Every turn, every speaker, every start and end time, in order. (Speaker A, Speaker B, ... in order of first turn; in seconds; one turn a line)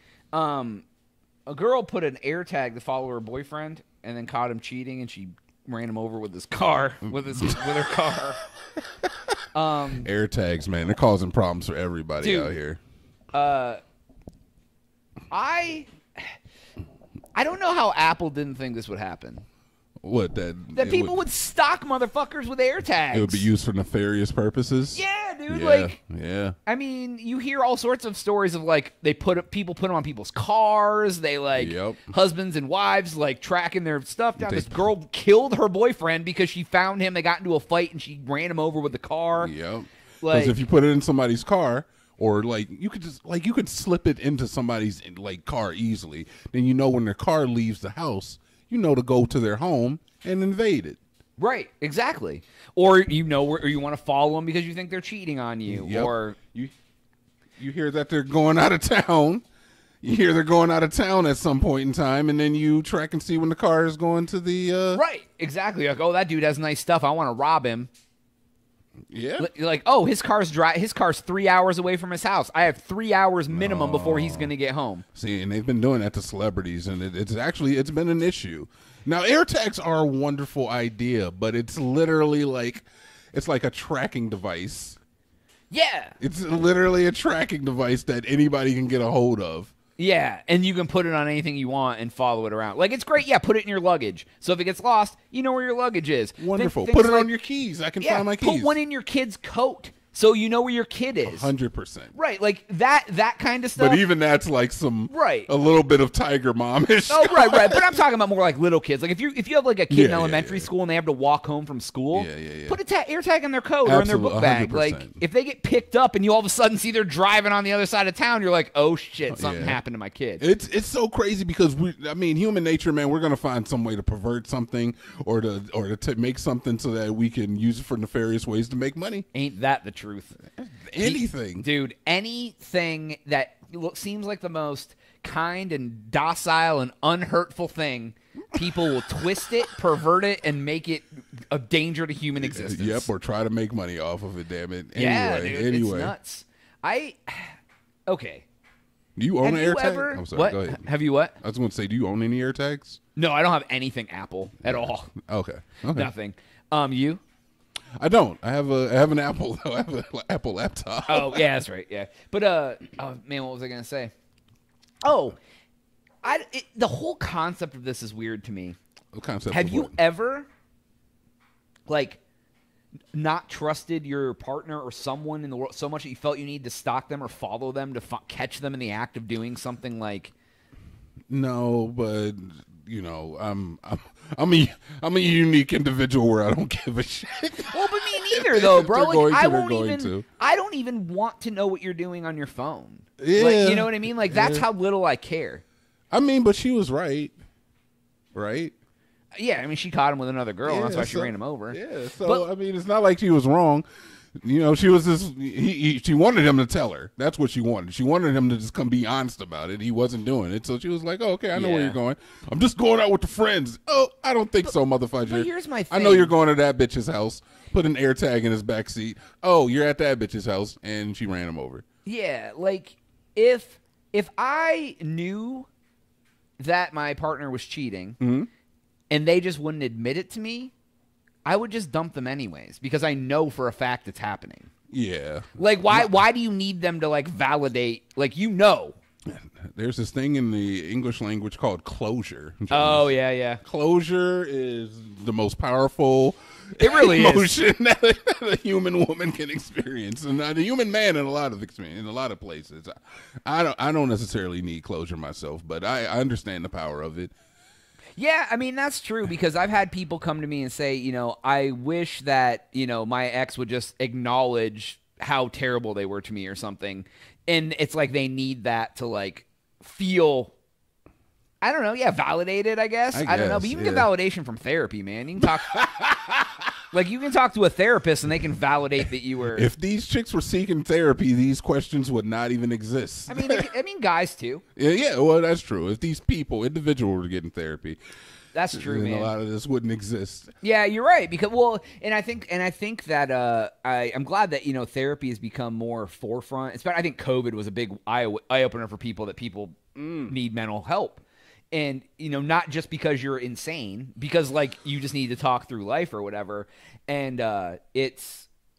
Speaker A: 0.3-0.8
Speaker A: 1.5-8.4
Speaker B: 7.3-7.9
Speaker A: 9.5-10.1
Speaker B: 10.0-12.8
Speaker A: 12.2-12.5
Speaker A: 13.3-13.8
Speaker A: 15.3-16.4
Speaker A: 17.3-19.4
Speaker B: 20.0-21.2
Speaker A: 20.7-23.5
Speaker B: 23.1-26.6
Speaker A: 24.9-25.9
Speaker A: 26.7-39.5
Speaker B: 31.6-32.1
Speaker B: 34.4-34.9
Speaker B: 39.4-51.0
Speaker A: 40.2-40.6
Speaker A: 51.4-56.4
Speaker B: 55.7-56.7
Speaker B: 57.6-59.4
Speaker B: 60.0-65.0
Speaker A: 64.9-67.9
Speaker B: 69.1-69.5
Speaker A: 69.4-75.0
Speaker B: 73.5-74.5
Speaker B: 75.1-85.0
Speaker A: 85.7-86.2
Speaker B: 86.2-89.7
Speaker A: 90.0-97.3
Speaker B: 96.4-98.8
Speaker A: 98.0-101.5
Speaker B: 101.2-102.1
Speaker A: 102.1-104.0
Speaker B: 103.8-108.0
Speaker A: 105.1-105.5
Speaker A: 107.1-120.4
Speaker B: 109.9-110.7
Speaker B: 112.1-112.8
Speaker B: 113.8-115.2
Speaker B: 119.3-119.8
Speaker B: 120.4-129.2
Speaker A: 129.3-130.4
Speaker B: 130.6-131.7
Speaker A: 131.0-143.1
Speaker B: 138.5-139.5
Speaker B: 142.4-146.1
Speaker A: 144.9-148.4
Speaker B: 149.2-150.8
Speaker A: 149.4-151.3
Speaker B: 151.4-153.0
Speaker A: 153.2-155.1
Speaker B: 154.6-156.1
Speaker A: 155.9-157.2
Speaker B: 158.0-161.5
Speaker A: 161.1-164.1
Speaker A: 165.0-165.4
Speaker A: 166.2-168.8
Speaker B: 169.1-170.0
Speaker A: 169.5-170.5
Speaker A: 171.9-172.2
Speaker A: 173.1-180.3
Speaker B: 181.3-190.2
Speaker A: 187.7-195.6
Speaker B: 193.2-194.7
Speaker B: 196.1-197.3
Speaker B: 198.3-198.7
Speaker A: 199.3-202.4
Speaker B: 200.6-221.8
Speaker A: 211.5-212.0
Speaker A: 215.2-216.3
Speaker A: 222.0-225.7
Speaker A: 226.6-228.2
Speaker B: 228.2-228.5
Speaker A: 229.1-230.7
Speaker A: 231.4-234.7
Speaker B: 234.9-236.2
Speaker A: 235.6-239.0
Speaker B: 239.2-257.3
Speaker A: 242.7-243.6
Speaker A: 246.8-247.5
Speaker A: 258.1-270.5
Speaker A: 271.6-275.9
Speaker B: 273.1-274.1
Speaker B: 275.4-276.1
Speaker A: 276.9-279.7
Speaker B: 279.5-283.7
Speaker A: 283.3-284.6
Speaker B: 284.8-288.0
Speaker A: 288.5-289.3
Speaker B: 288.7-290.5
Speaker A: 290.6-299.8
Speaker B: 299.9-300.3
Speaker A: 300.3-308.5